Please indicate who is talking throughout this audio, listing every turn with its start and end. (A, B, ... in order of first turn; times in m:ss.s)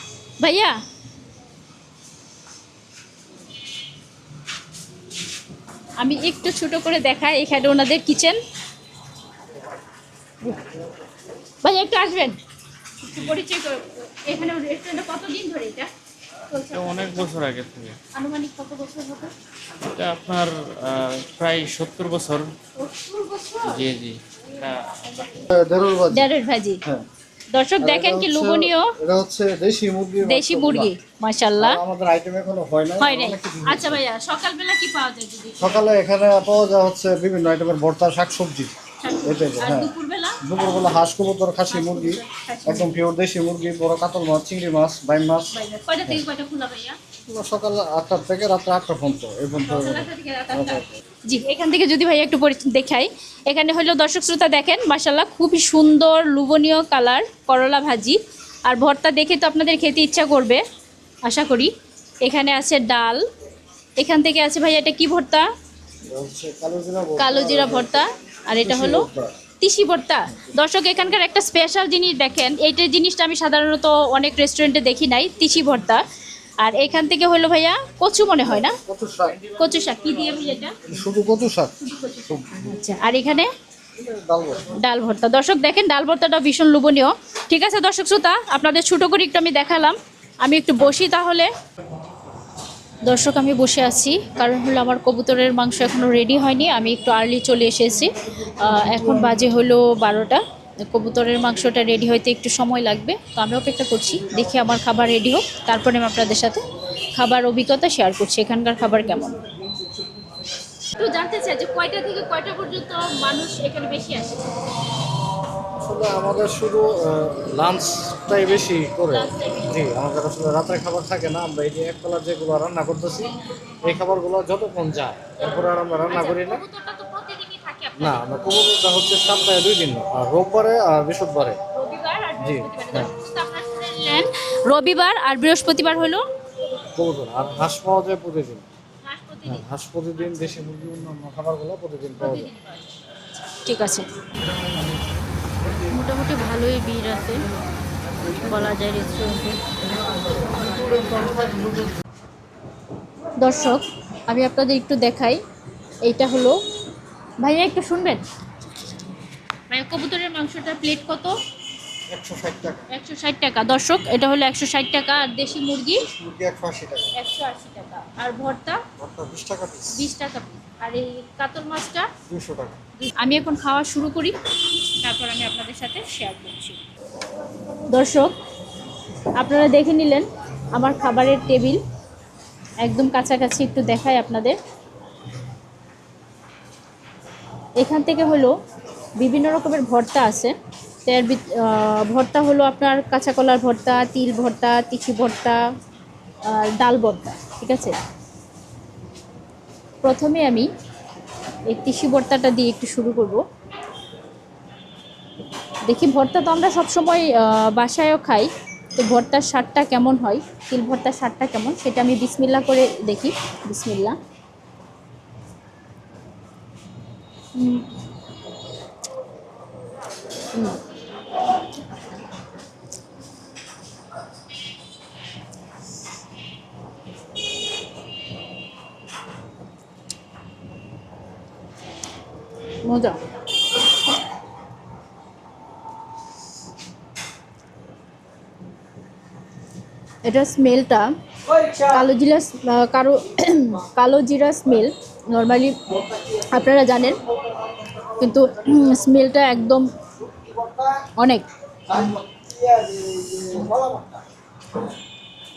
0:00.4-0:00.8 A
0:06.0-0:08.4 A
0:11.6-0:12.4 A
0:13.0-0:15.9 A
0:16.5-0:17.2 A
0:16.7-0:18.0 B
0:18.1-0:19.3 A
0:19.9-0:22.5 B
0:22.8-0:23.8 A
0:23.6-0:25.3 B
0:25.5-0:26.3 C
0:26.1-0:26.8 A
0:27.5-0:29.0 A
0:27.8-0:30.9 C
0:30.2-0:31.8 A
0:31.6-0:34.0 C
0:33.0-0:35.8 A
0:35.6-0:38.7 C
0:39.0-0:40.4 A
0:39.2-0:39.9 C
0:40.4-0:45.6 C
0:41.7-0:42.9 A
0:45.5-0:47.0 A
0:47.3-0:51.0 C
0:49.6-1:00.6 A
1:01.2-1:01.7 A
1:02.2-1:03.2 A
1:04.0-1:05.5 A
1:06.1-1:09.4 C
1:07.2-1:09.0 A
1:09.6-1:16.0 A
1:16.6-1:18.8 A
1:18.5-1:19.6 C
1:19.6-1:20.8 A
1:20.9-1:21.8 C
1:21.9-1:23.5 A
1:24.0-1:24.7 C
1:24.7-1:31.5 A
1:33.0-1:46.6 A
1:47.2-1:49.4 A
1:51.0-1:54.4 A
1:55.8-2:06.6 C
1:59.1-1:59.8 A
2:06.1-2:08.3 A
2:08.0-2:11.6 C
2:11.7-2:16.2 A
2:12.4-2:13.1 C
2:16.9-2:18.7 C
2:19.0-2:20.7 A
2:19.5-2:22.5 C
2:22.2-2:22.8 A
2:23.5-2:24.1 A
2:25.9-2:27.4 A
2:28.3-2:29.6 A
2:30.8-2:31.2 A
2:33.4-2:35.4 A
2:36.0-2:36.6 A
2:37.4-2:38.2 A
2:39.7-2:41.3 A
2:42.1-2:42.9 C
2:42.9-2:46.1 A
2:46.0-2:47.1 C
2:47.2-2:48.8 A
2:49.0-2:50.1 C
2:49.9-2:52.1 A
2:52.3-2:52.8 C
2:53.0-2:54.4 A
2:55.0-2:56.8 A
2:57.9-2:58.4 A
2:59.4-3:01.8 A
3:02.8-3:04.6 A
3:07.8-3:08.5 A
3:09.2-3:10.5 A
3:11.1-3:15.6 A
3:16.5-3:18.0 A
3:20.0-3:20.7 A
3:21.7-3:23.4 A
3:25.9-3:34.2 A
3:37.6-3:37.9 A
3:52.8-3:53.2 A
4:00.2-4:01.1 A
4:01.8-4:05.8 A
4:06.4-4:07.2 A
4:08.2-4:09.9 A
4:11.2-4:12.0 A
4:13.5-4:13.8 A